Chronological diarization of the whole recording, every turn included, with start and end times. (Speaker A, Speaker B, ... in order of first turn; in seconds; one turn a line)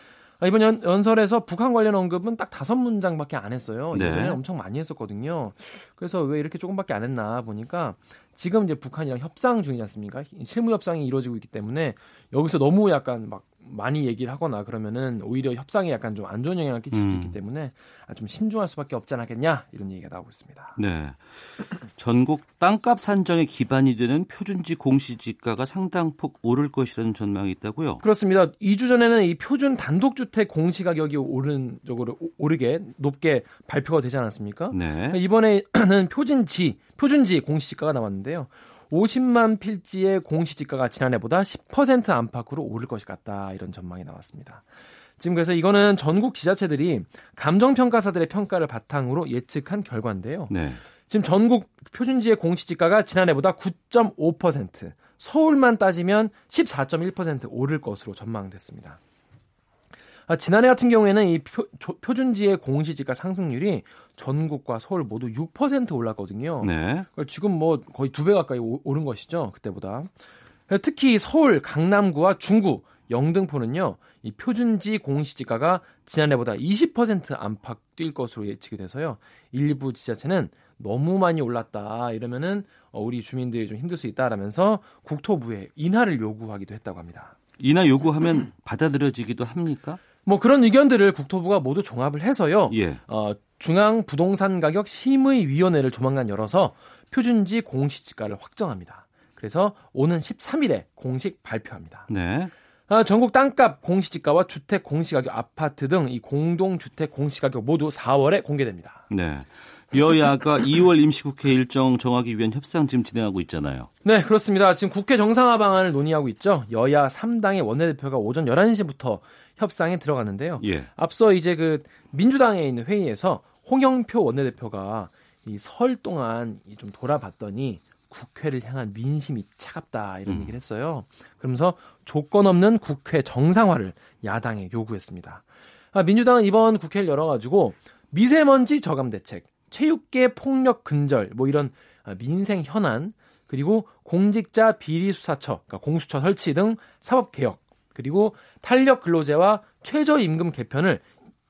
Speaker A: 0.4-20.7
Speaker B: 3.9-4.4
Speaker B: 16.9-17.4
Speaker B: 20.8-28.0
Speaker A: 28.0-50.5
Speaker B: 34.7-35.2
Speaker B: 50.5-50.8
Speaker A: 51.1-59.0
Speaker A: 60.3-87.3
Speaker B: 66.6-67.1
Speaker B: 87.6-90.0
Speaker A: 90.3-102.1
Speaker B: 92.7-93.0
Speaker B: 102.1-102.5
Speaker A: 102.9-109.1
Speaker B: 109.1-113.9
Speaker A: 114.0-151.1
Speaker B: 120.6-120.9
Speaker B: 130.3-130.5